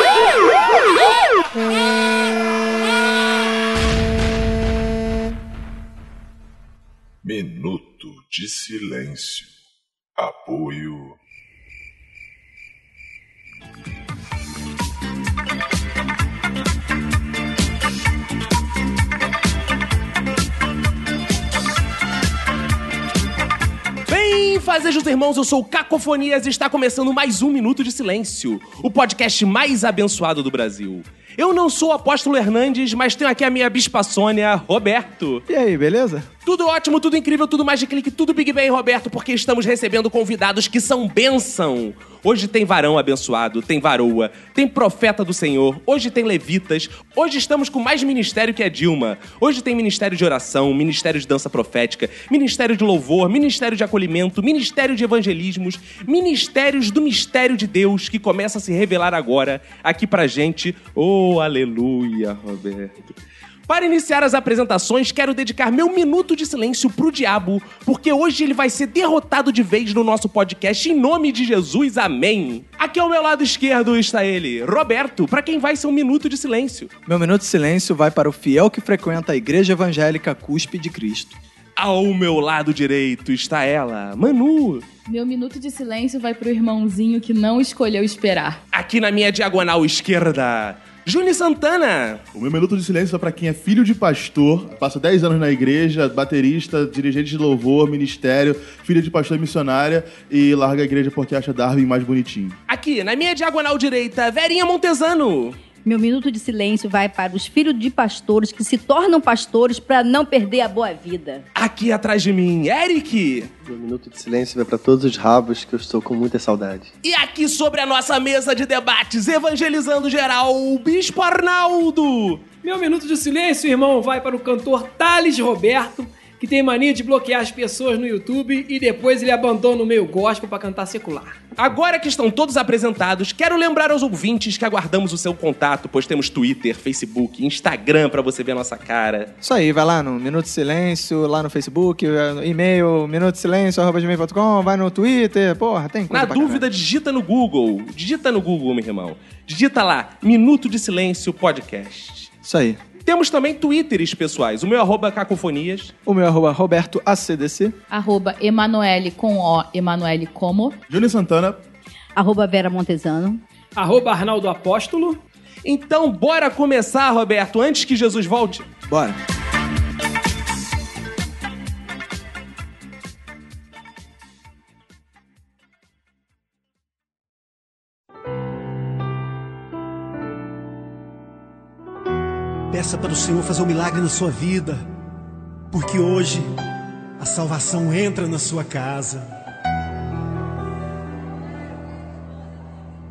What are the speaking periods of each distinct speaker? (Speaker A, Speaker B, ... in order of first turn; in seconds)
Speaker A: 7.2-9.5, 10.2-11.2
Speaker B: 24.1-35.4, 36.4-63.1, 63.7-76.9, 81.8-84.8, 88.7-92.2, 102.7-105.6, 111.5-113.5, 117.0-122.4, 131.6-139.3, 146.1-152.3, 153.0-155.9, 165.6-168.7
Speaker C: 35.5-36.3, 77.1-81.4, 139.4-146.6, 152.4-152.8, 156.1-157.8, 168.9-169.2
Speaker D: 85.1-88.6, 157.9-160.8
Speaker E: 92.3-102.5, 160.9-161.6
Speaker F: 105.8-111.4, 162.2-163.4
Speaker G: 113.6-116.9
Speaker H: 122.6-131.4, 163.8-165.2
Speaker I: 182.7-184.8, 185.7-186.5, 187.2-189.3